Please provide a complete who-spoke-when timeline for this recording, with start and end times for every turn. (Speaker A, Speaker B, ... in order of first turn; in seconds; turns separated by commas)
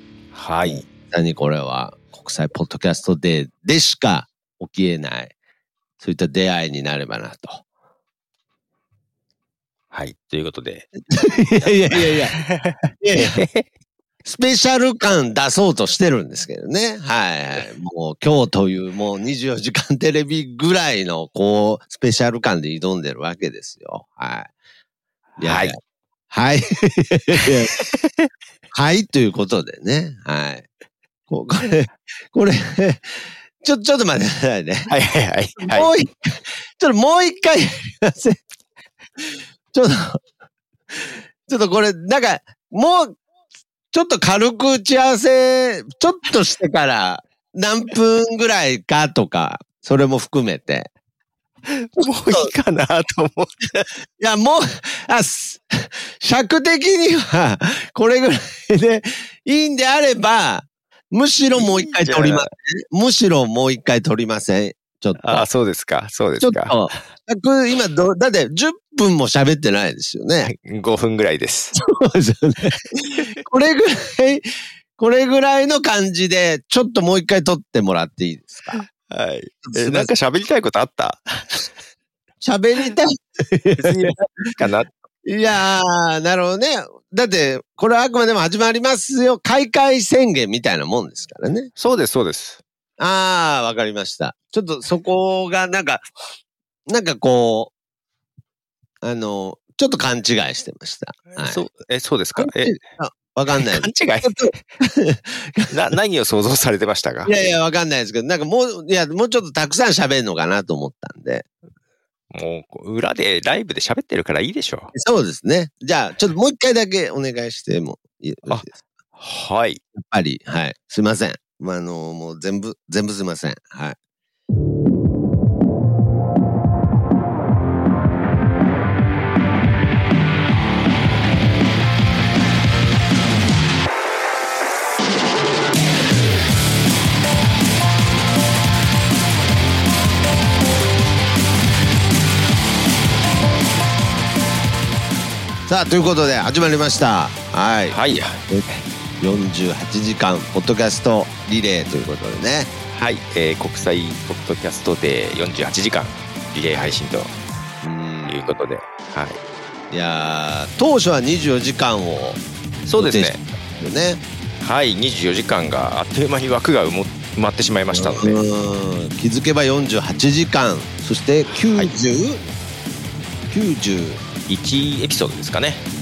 Speaker A: 0.3-0.9, Speaker B: 0.6-5.3, Speaker B: 6.0-7.7, Speaker A: 9.9-10.9, Speaker B: 11.1-12.4, Speaker A: 11.6-13.7, Speaker B: 13.0-13.4, Speaker B: 14.2-24.5, Speaker A: 25.4-25.8, Speaker B: 25.4-25.8, Speaker B: 26.3-27.8, Speaker A: 27.4-28.3, Speaker B: 28.7-30.7, Speaker B: 31.3-34.9, Speaker A: 34.9-35.9, Speaker B: 35.6-38.4, Speaker B: 39.2-40.2, Speaker B: 40.9-43.2, Speaker B: 43.9-50.9, Speaker A: 51.7-54.0, Speaker B: 52.0-52.5, Speaker B: 54.2-65.5, Speaker A: 61.5-62.5, Speaker A: 65.2-67.0, Speaker B: 66.4-70.5, Speaker A: 70.4-71.7, Speaker B: 71.8-78.8, Speaker A: 78.7-81.7, Speaker B: 79.7-80.1, Speaker B: 82.4-84.1, Speaker A: 83.8-85.0, Speaker B: 85.3-91.7, Speaker A: 91.8-92.6, Speaker B: 93.0-96.1, Speaker B: 96.9-97.7, Speaker B: 99.0-101.6, Speaker A: 101.4-102.8, Speaker B: 102.4-105.7, Speaker A: 103.5-104.6, Speaker A: 105.7-107.3, Speaker B: 107.3-111.5, Speaker A: 112.3-114.9, Speaker B: 114.9-118.8, Speaker A: 118.5-119.8, Speaker B: 120.0-124.0, Speaker B: 145.7-148.0, Speaker A: 147.9-148.8, Speaker B: 149.2-152.7, Speaker A: 152.9-157.3, Speaker B: 156.7-157.0, Speaker B: 157.8-158.5, Speaker A: 158.3-159.4, Speaker B: 159.9-162.4, Speaker A: 162.9-163.4, Speaker B: 163.0-164.2, Speaker A: 164.6-168.4, Speaker B: 167.9-172.4, Speaker A: 171.5-171.9, Speaker B: 173.5-174.2, Speaker A: 174.5-175.8